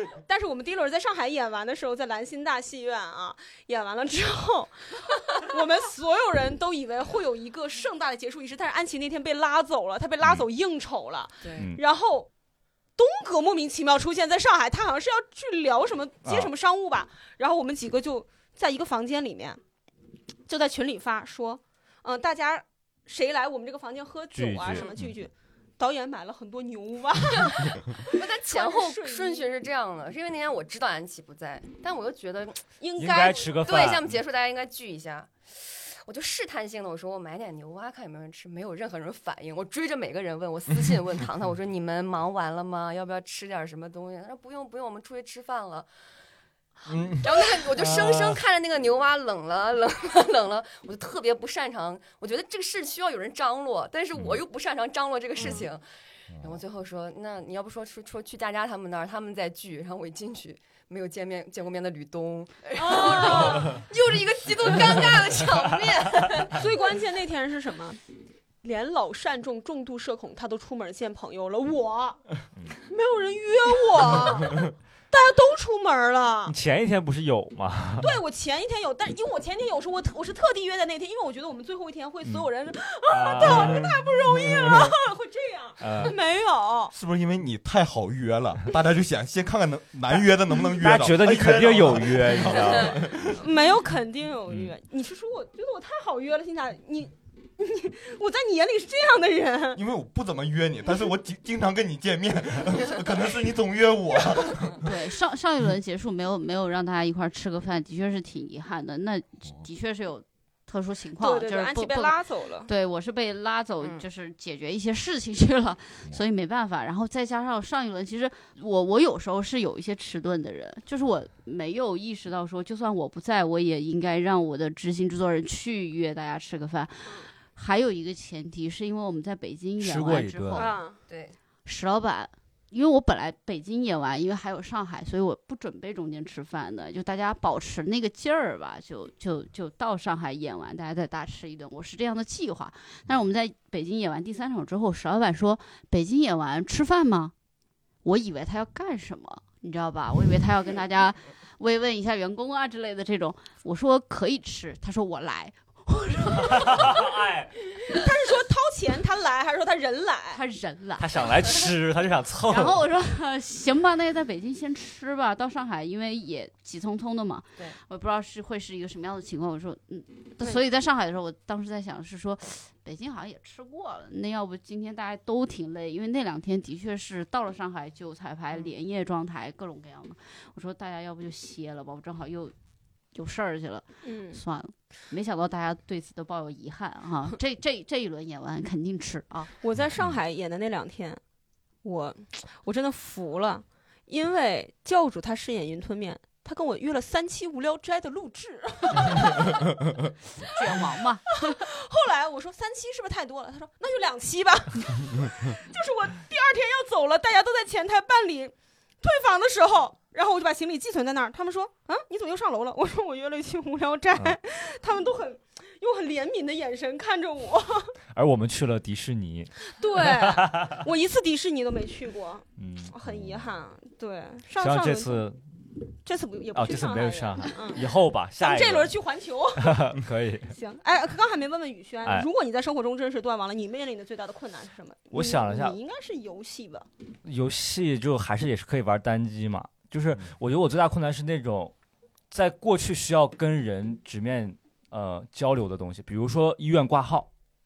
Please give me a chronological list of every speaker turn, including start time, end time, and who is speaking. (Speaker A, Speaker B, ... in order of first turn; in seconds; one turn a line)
Speaker A: 0.2-12.3
Speaker B: 11.4-11.7
Speaker A: 13.0-19.6
Speaker C: 16.2-16.5
Speaker A: 20.5-29.5
Speaker C: 24.3-25.1
Speaker B: 28.0-32.6
Speaker A: 32.8-33.6
Speaker C: 33.0-34.1
Speaker B: 33.6-45.9
Speaker D: 46.9-48.4
Speaker B: 47.1-55.8
Speaker D: 56.3-56.6
Speaker B: 56.4-66.7
Speaker A: 62.8-63.8
Speaker A: 66.5-68.0
Speaker A: 68.6-72.3
Speaker A: 72.8-76.5
Speaker C: 76.5-78.1
Speaker A: 78.0-86.9
Speaker C: 83.1-83.9
Speaker D: 83.4-84.9
Speaker C: 85.8-86.1
Speaker D: 86.9-93.4
Speaker C: 90.7-93.2
Speaker A: 93.3-99.8
Speaker C: 94.5-94.7
Speaker D: 99.7-105.0
Speaker E: 104.8-130.8
Speaker A: 111.2-112.7
Speaker C: 129.8-130.7
Speaker A: 130.5-131.0
Speaker B: 131.1-131.4
Speaker E: 131.6-147.3
Speaker E: 148.0-157.1
Speaker C: 156.4-157.5
Speaker A: 157.8-160.4
Speaker E: 160.3-161.3
Speaker C: 161.0-162.8
Speaker E: 162.5-182.5
Speaker E: 183.1-189.5
Speaker A: 184.0-184.4
Speaker A: 189.6-191.2
Speaker A: 191.8-199.6
Speaker E: 200.4-201.6
Speaker A: 201.3-217.9
Speaker C: 218.1-220.8
Speaker A: 219.7-225.3
Speaker C: 222.6-222.9
Speaker D: 223.1-223.4
Speaker C: 224.6-225.5
Speaker A: 226.0-229.9
Speaker C: 226.5-228.9
Speaker C: 229.6-230.5
Speaker A: 230.5-236.9
Speaker C: 235.1-235.8
Speaker C: 237.2-241.7
Speaker C: 242.3-247.3